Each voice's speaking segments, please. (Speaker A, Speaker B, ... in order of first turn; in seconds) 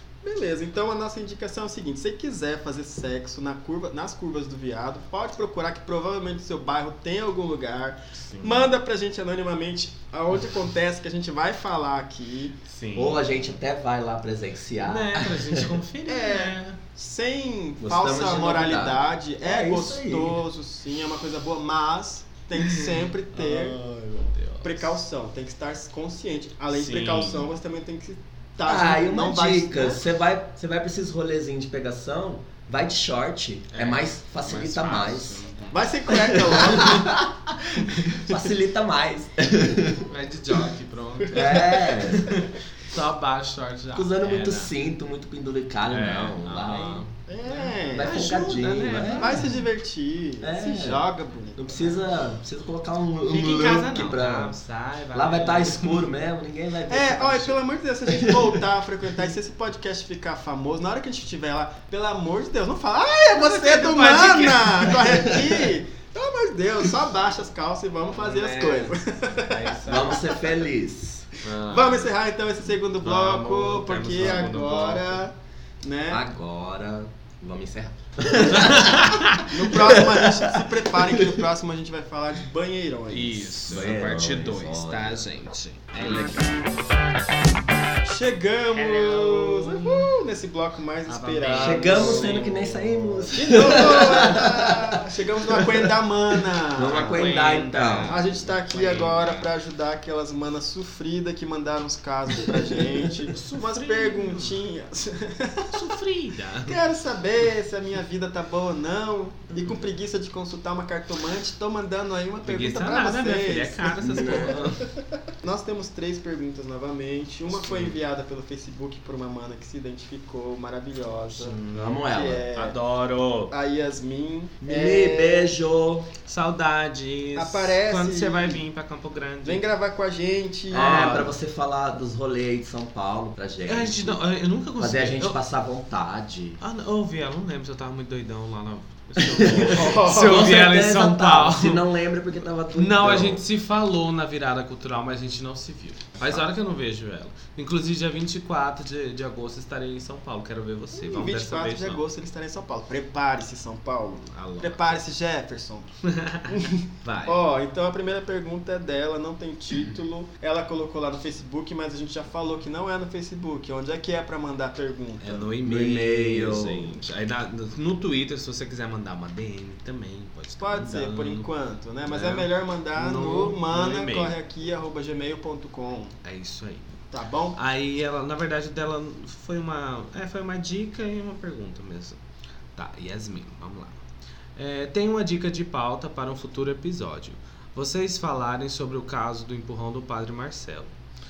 Speaker A: 0.2-12.6, 16.1-23.8, 24.6-30.0, 35.7-37.1, 47.3-48.2, 49.1-52.0, 56.9-70.2, 71.7-76.2, 79.4-83.7, 88.0-92.5, 93.3-97.4, 98.1-105.9, 106.6-114.6, 115.4-121.6, 122.1-122.7, 123.5-125.5, 127.3-128.6, 129.4-131.0, 139.6-140.4, 150.9-155.9, 156.5-165.5, 170.6-176.1, 177.1-177.6
Speaker B: 8.2-8.7, 12.7-13.4, 14.8-16.8, 22.6-25.0, 26.7-27.5, 33.7-35.9, 40.1-44.7, 45.9-49.6, 53.2-56.1, 63.4-65.1, 68.1-70.2, 71.4-72.1, 73.0-75.2, 78.5-79.4, 83.1-86.6, 88.7-90.1, 91.0-93.8, 96.9-99.5, 103.3-104.6, 105.7-106.8, 109.5-109.8, 112.4-114.9, 117.5-118.0, 121.3-123.5, 126.3-129.6, 130.7-131.3, 133.7-135.4, 136.6-141.9, 142.7-152.0, 154.2-155.0, 156.1-157.4, 165.2-171.5, 172.0-174.3, 176.2-177.0, 177.5-182.2, 182.7-184.0, 184.6-190.9
Speaker C: 12.9-15.7, 17.8-20.4, 28.6-35.4, 36.1-40.0, 41.3-42.4, 43.9-47.0, 47.9-49.5, 50.4-51.0, 51.5-54.6, 55.1-58.6, 65.1-65.6, 69.8-71.3, 76.1-81.4, 83.6-85.4, 91.6-94.8, 96.7-98.2, 114.0-114.7, 121.7-122.5, 124.6-126.1, 130.7-134.2, 134.8-136.6, 139.2-143.4, 146.2-146.4, 165.6-167.0